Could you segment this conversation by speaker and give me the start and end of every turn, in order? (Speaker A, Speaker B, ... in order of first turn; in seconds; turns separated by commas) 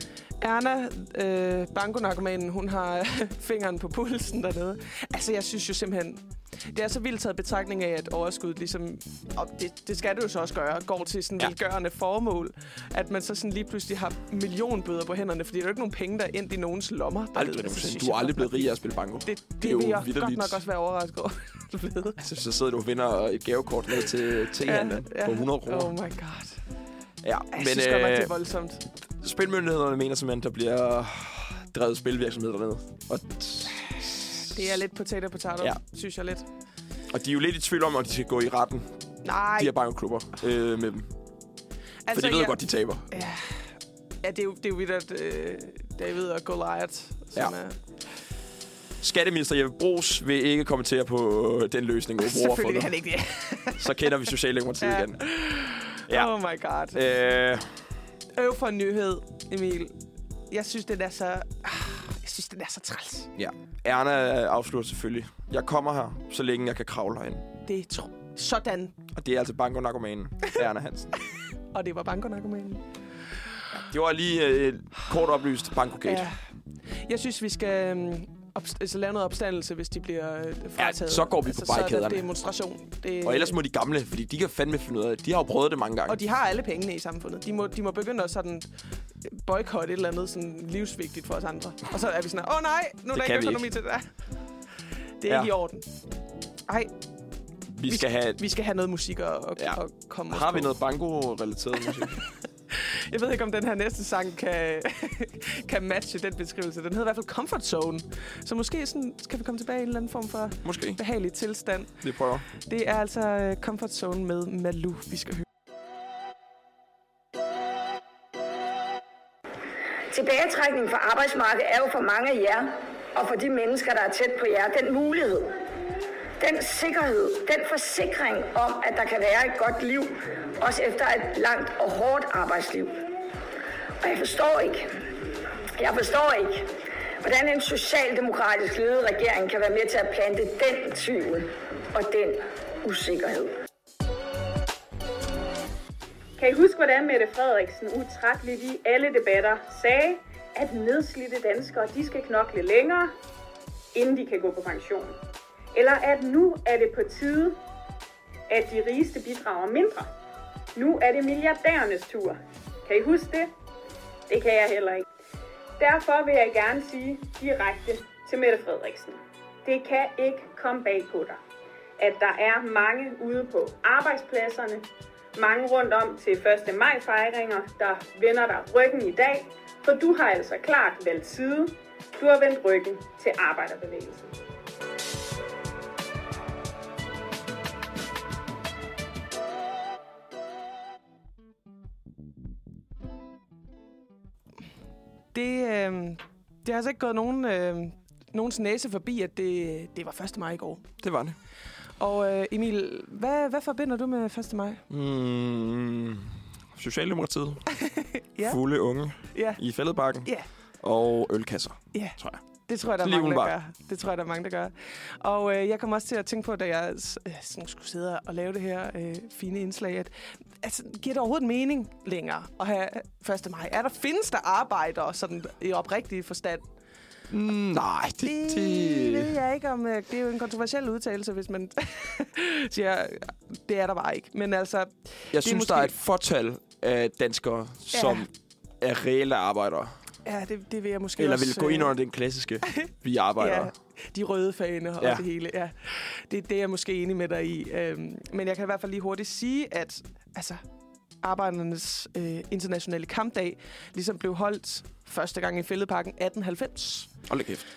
Speaker A: 0.4-22.2, Speaker B: 17.4-20.6, Speaker B: 22.2-25.9, Speaker A: 24.6-26.6, Speaker B: 27.2-28.3, Speaker A: 27.5-28.9, Speaker B: 29.1-34.6, Speaker A: 34.5-36.5, Speaker B: 37.1-38.9, Speaker A: 39.2-39.8, Speaker B: 39.6-41.1, Speaker A: 42.1-43.5, Speaker B: 42.1-43.2, Speaker A: 44.2-47.8, Speaker B: 49.0-52.9, Speaker A: 52.2-54.1, Speaker B: 53.8-55.2, Speaker A: 54.8-57.0, Speaker B: 56.9-57.8, Speaker A: 58.4-60.0, Speaker A: 60.5-63.3, Speaker B: 63.4-67.5, Speaker A: 67.7-69.0, Speaker B: 69.1-71.1, Speaker A: 71.7-72.8, Speaker B: 73.8-76.3, Speaker A: 76.0-76.4, Speaker A: 77.0-83.6, Speaker B: 80.8-82.3, Speaker B: 83.2-86.2, Speaker A: 86.1-88.7, Speaker A: 89.2-94.1, Speaker B: 93.1-93.7, Speaker A: 95.2-95.9, Speaker A: 96.7-97.0, Speaker B: 97.7-98.4, Speaker A: 97.9-100.7, Speaker B: 100.3-102.2, Speaker A: 102.7-115.5, Speaker B: 110.6-111.0, Speaker B: 112.0-112.5, Speaker C: 120.1-125.6, Speaker C: 126.4-133.0, Speaker C: 134.0-135.0, Speaker C: 135.8-143.6, Speaker D: 146.4-153.1, Speaker D: 153.9-155.2, Speaker D: 155.7-157.6, Speaker D: 158.5-160.1, Speaker D: 160.8-163.5, Speaker D: 164.3-165.1, Speaker D: 165.8-171.4, Speaker D: 172.0-184.3, Speaker A: 195.3-200.9, Speaker B: 201.0-201.4, Speaker A: 202.0-204.8, Speaker B: 204.9-207.7, Speaker A: 207.7-208.6, Speaker B: 208.4-210.3, Speaker A: 209.3-209.6, Speaker B: 210.8-212.4, Speaker A: 211.9-226.7, Speaker B: 213.0-213.6, Speaker B: 227.3-229.4, Speaker A: 228.2-235.9, Speaker B: 235.3-238.3, Speaker A: 237.9-238.3, Speaker B: 238.8-239.9, Speaker A: 240.2-241.9, Speaker B: 241.2-243.7, Speaker A: 242.7-250.6, Speaker A: 251.2-257.1, Speaker B: 257.3-257.7